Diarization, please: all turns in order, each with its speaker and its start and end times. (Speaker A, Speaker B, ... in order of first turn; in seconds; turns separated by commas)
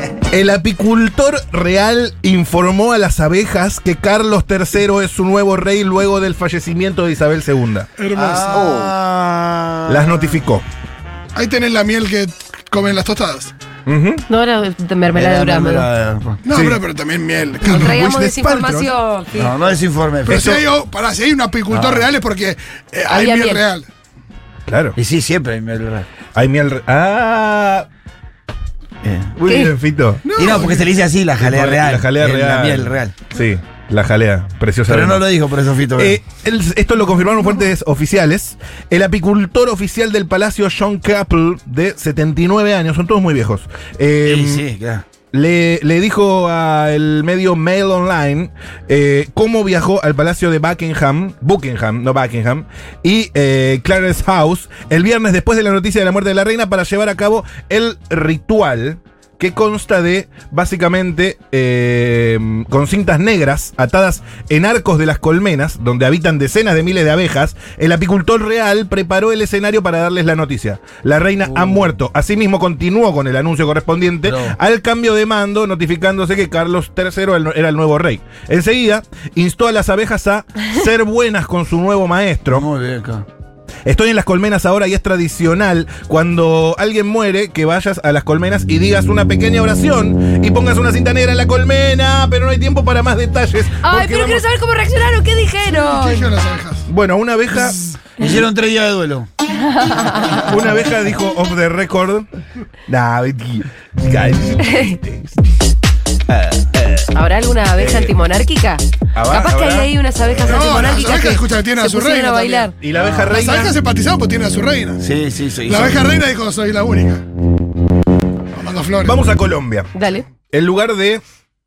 Speaker A: 0.3-7.9, Speaker B: 8.0-8.8, Speaker C: 8.1-10.4, Speaker A: 9.9-10.7, Speaker B: 11.3-13.5, Speaker A: 13.9-14.3, Speaker D: 14.3-15.9, Speaker C: 15.1-16.4, Speaker B: 16.4-18.0, Speaker A: 16.5-16.8, Speaker A: 17.6-18.9, Speaker D: 17.7-19.6, Speaker C: 19.4-20.7, Speaker B: 20.3-23.9, Speaker C: 21.7-22.1, Speaker D: 23.1-23.6, Speaker A: 24.7-25.0, Speaker C: 25.0-26.1, Speaker A: 26.4-27.9, Speaker C: 29.0-29.3, Speaker A: 29.4-30.3, Speaker D: 29.5-29.8, Speaker B: 30.2-30.9, Speaker C: 30.3-33.2, Speaker A: 31.4-35.3, Speaker C: 34.9-36.2, Speaker A: 35.9-44.6, Speaker C: 44.2-45.0, Speaker A: 45.3-82.7, Speaker C: 71.5-71.9, Speaker C: 74.3-74.5, Speaker C: 82.5-83.3, Speaker A: 83.9-94.5, Speaker D: 93.8-96.3, Speaker B: 95.8-96.9, Speaker A: 96.9-97.8, Speaker C: 98.2-99.3, Speaker D: 99.6-100.5, Speaker A: 100.4-102.3, Speaker A: 102.9-105.4, Speaker D: 104.6-105.0, Speaker A: 106.3-107.1, Speaker D: 107.1-112.7, Speaker A: 107.8-108.2, Speaker A: 109.2-109.9, Speaker B: 110.4-112.7, Speaker A: 110.5-110.9, Speaker A: 112.8-113.8, Speaker C: 112.9-113.3, Speaker B: 113.3-115.1, Speaker C: 115.0-116.2, Speaker B: 115.7-117.2, Speaker B: 118.5-119.3, Speaker A: 119.0-119.9, Speaker D: 119.9-120.3, Speaker A: 120.5-121.2